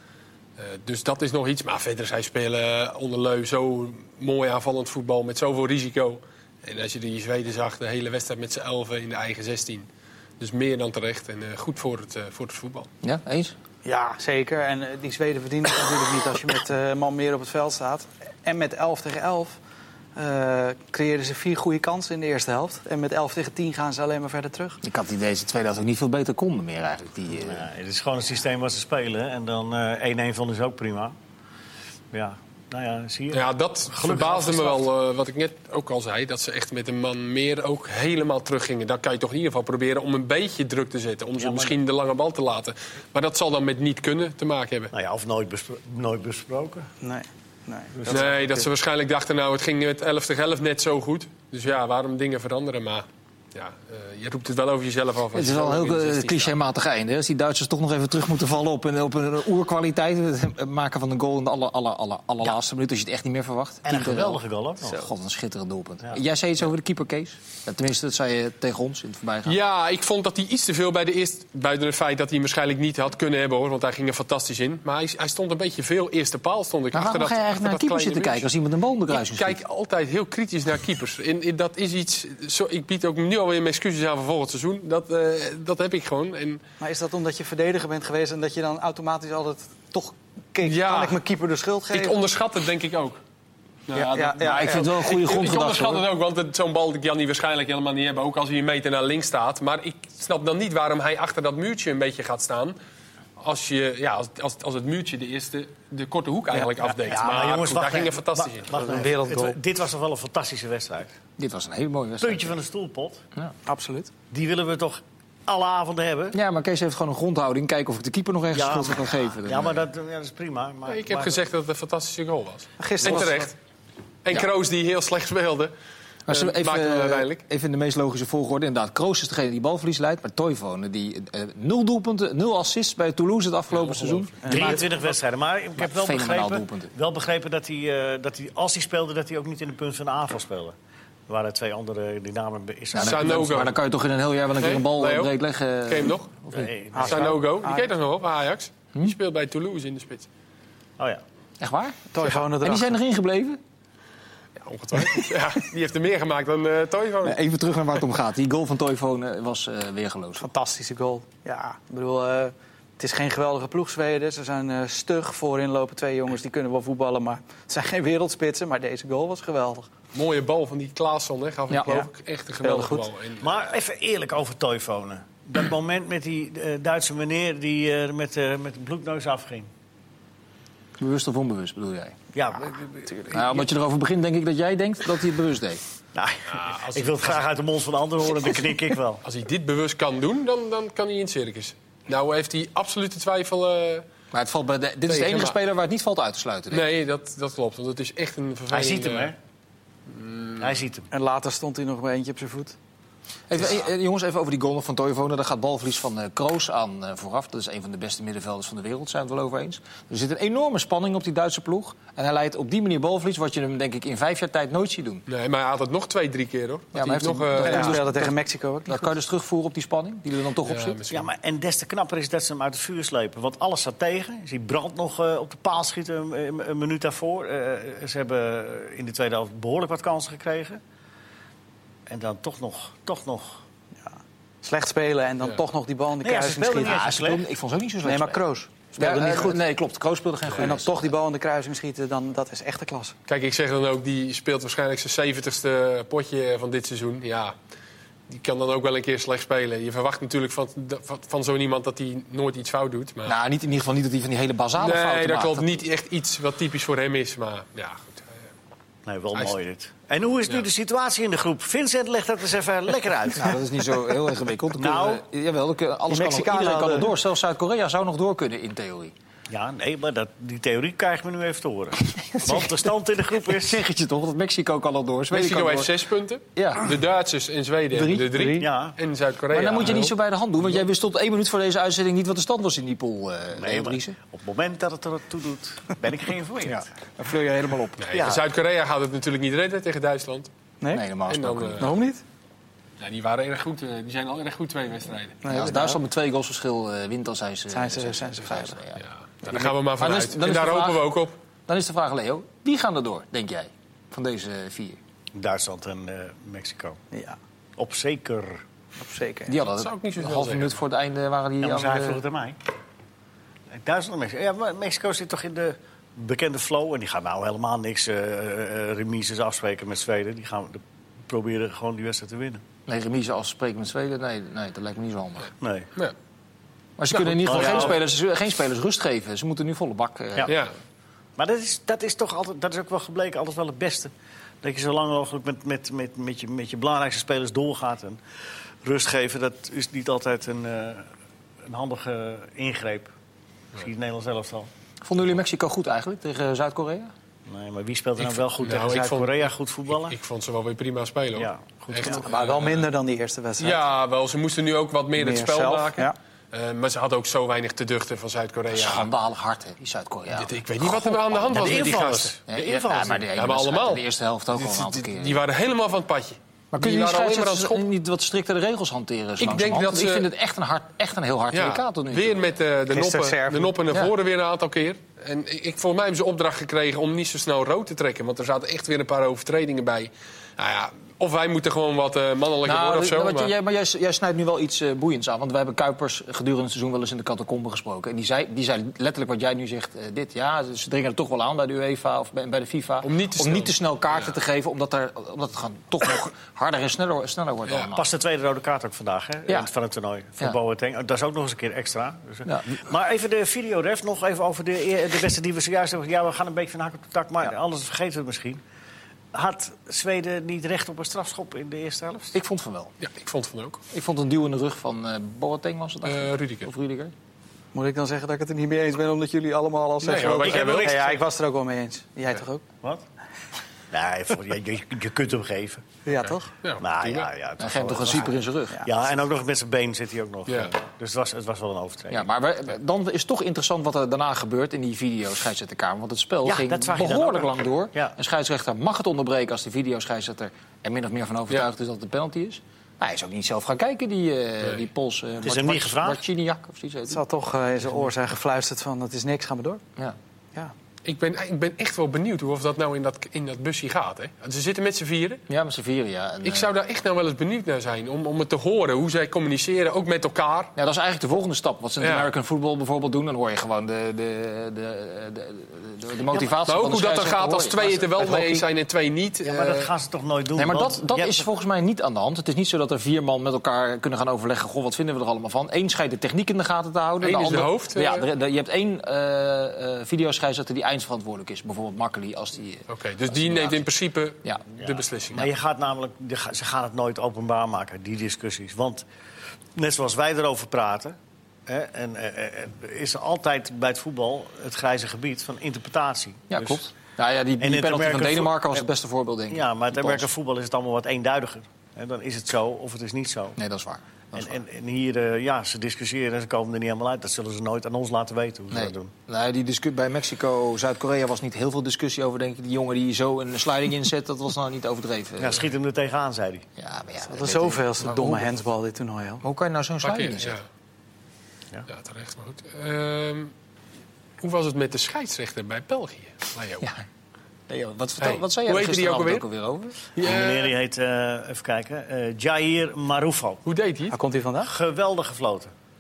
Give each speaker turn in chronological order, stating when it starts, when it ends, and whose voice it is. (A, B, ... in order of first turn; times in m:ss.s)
0:00.6-0:09.9 A
0:10.4-0:12.9 A
0:13.0-0:13.5 B
0:13.8-0:19.6 C
0:20.2-0:24.8 C
0:24.8-0:27.7 B
0:27.4-0:31.1 D
0:32.1-0:34.8 D
0:33.3-0:44.9 A
0:41.4-0:41.8 D
0:44.9-0:46.9 D
0:47.0-0:48.7 C
0:47.9-0:48.4 D
0:48.1-0:56.5 A
0:55.3-1:09.6 B
1:03.8-1:05.0 D
1:09.4-1:18.5 A
1:16.9-1:19.6 B
1:19.1-1:26.6 A
1:26.8-1:32.2 C
1:30.6-1:31.2 A
1:31.9-1:33.2 A
1:33.9-1:42.8 A
1:34.0-1:34.9 C
1:34.2-1:36.0 B
1:43.4-1:48.7 A
1:47.0-1:51.1 D
1:48.7-1:49.6 C
1:51.4-1:52.6 B
1:52.2-1:53.2 D
1:53.6-1:54.1 C
1:54.3-1:56.4 D
1:56.3-1:59.8 B
1:58.5-2:01.4 D
2:00.8-2:03.5 A
2:02.8-2:03.5 C
2:04.2-2:05.7 A
2:06.3-2:07.4 A
2:06.3-2:14.8 B
2:13.7-2:14.4 A
2:14.4-2:14.9 C
2:14.5-2:20.7 D
2:15.8-2:16.9 B
2:21.3-2:23.6 D
2:22.9-2:26.7 B
2:23.0-2:23.7 A
2:24.6-2:25.3 A
2:25.8-2:26.3 A
2:26.5-2:27.3 D
2:26.9-2:27.9 C
2:27.0-2:30.3 A
2:31.6-2:33.6 B
2:32.1-2:33.0 C
2:34.6-2:37.4 A
2:37.2-2:40.5 B
2:40.4-2:49.9 C
2:50.1-2:53.5 A
2:52.6-2:53.0 C
2:53.4-2:59.7 D
3:01.0-3:02.2 B
3:02.3-3:03.7 D
3:03.3-3:05.8 B
3:06.1-3:09.2 D
3:06.5-3:07.5 A
3:09.2-3:14.0 A
3:14.3-3:16.9 B
3:15.1-3:15.6 A
3:16.7-3:19.3 A
3:18.7-3:19.4 D
3:20.1-3:20.7 A
3:20.6-3:21.1 D
3:21.1-3:22.7 C
3:23.5-3:35.2 B
3:35.3-3:38.0 A
3:36.9-3:41.0 B
3:37.6-3:39.1 C
3:40.6-3:41.3 A
3:41.1-3:50.8 D
3:52.1-3:53.6 D
3:54.6-3:57.0 C
3:56.2-3:57.4 D
3:56.8-3:58.4 B
3:58.0-3:59.6 C
3:58.9-4:01.1 B
4:00.6-4:03.1 C
4:03.3-4:07.5 A
4:08.3-4:13.3 A
4:13.2-4:15.7 B
4:14.8-4:18.3 A
4:19.0-4:23.6 D
4:23.3-4:29.1 B
4:24.8-4:25.2 D
4:26.1-4:27.1 C
4:29.5-4:33.8 D
4:32.1-4:35.9 B
4:35.3-4:40.1 A
4:36.5-4:36.9 B
4:37.9-4:38.7 C
4:38.6-4:39.0 D
4:39.5-4:44.1 B
4:43.6-4:46.8 D
4:46.6-4:48.0 C
4:48.0-4:50.5 A
4:48.1-4:48.4 D
4:50.9-4:52.0 B
4:51.3-4:51.9 A
4:51.8-4:52.2 C
4:53.0-4:55.4 A
4:55.4-4:56.0 C
4:55.5-5:01.1 B
4:57.7-4:58.8 C
4:59.0-5:01.3 A
5:01.7-5:05.0 B
5:05.3-5:07.0 D
5:07.1-5:07.4 C
5:07.8-5:08.6 D
5:09.0-5:09.6 C
5:09.5-5:12.2 B
5:09.8-5:10.8 A
5:11.6-5:12.6 D
5:13.8-5:22.6 D
5:22.8-5:25.5 B
5:25.6-5:25.9 D
5:27.0-5:30.5 B
5:27.1-5:28.0 A
5:27.4-5:28.0 D
5:30.4-5:30.7 A
5:31.4-5:38.2 D
5:38.8-5:41.1 D
5:41.6-5:43.1 D
5:43.7-5:44.7 D
5:45.0-5:47.1 B
5:47.5-5:50.2 D
5:48.2-5:52.9 A
5:51.4-5:52.2 D
5:52.0-5:53.8 C
5:53.6-5:59.1 A
5:55.2-5:56.2 C
5:58.7-6:02.0 B
6:00.3-6:02.4 A
6:01.5-6:03.2 D
6:02.5-6:05.4 B
6:03.3-6:07.8 A
6:06.7-6:12.6 B
6:09.4-6:10.3 A
6:11.5-6:23.5 A
6:12.9-6:13.7 C
6:22.6-6:38.1 B
6:33.0-6:34.4 A
6:37.9-6:48.6 D
6:42.4-6:42.8 B
6:49.3-6:52.4 D
6:52.3-6:52.9 B
6:53.0-6:53.8 A
6:53.9-6:57.1 B
6:56.0-6:56.7 A
6:57.7-7:02.6 C
7:00.0-7:01.0 A
7:00.2-7:01.2 D
7:03.9-7:05.8 D
7:06.0-7:06.5 C
7:06.2-7:07.3 A
7:06.8-7:12.2 D
7:07.6-7:08.8 B
7:10.5-7:10.7 A
7:12.1-7:27.2 B
7:16.4-7:18.1 D
7:25.4-7:26.2 D
7:27.1-7:29.8 C
7:31.0-7:35.4 A
7:35.5-7:36.7 B
7:36.4-7:40.7 A
7:40.8-7:48.6 B
7:42.0-7:42.3 A
7:46.6-7:49.9 A
7:49.4-7:51.4 D
7:50.5-8:03.8 B
7:57.2-7:58.2 A
8:02.9-8:05.5 A
8:04.8-8:09.0 D
8:09.8-8:11.2 D
8:11.7-8:16.8 D
8:16.5-8:20.3 B
8:17.6-8:18.8 D
8:19.5-8:23.6 D
8:23.6-8:24.6 B
8:24.3-8:29.1 D
8:28.7-8:35.6 B
8:35.4-8:36.6 D
8:36.8-8:38.6 B
8:37.3-8:39.4 C
8:39.4-8:40.6 B
8:40.0-8:40.6 A
8:41.9-8:43.5 A
8:44.4-8:46.9 A
8:47.7-8:50.0 B
8:48.2-8:49.4 A
8:50.1-8:50.7 A
8:50.2-8:53.6 D
8:53.6-8:54.2 A
8:54.1-8:54.7 C
8:54.6-8:55.7 D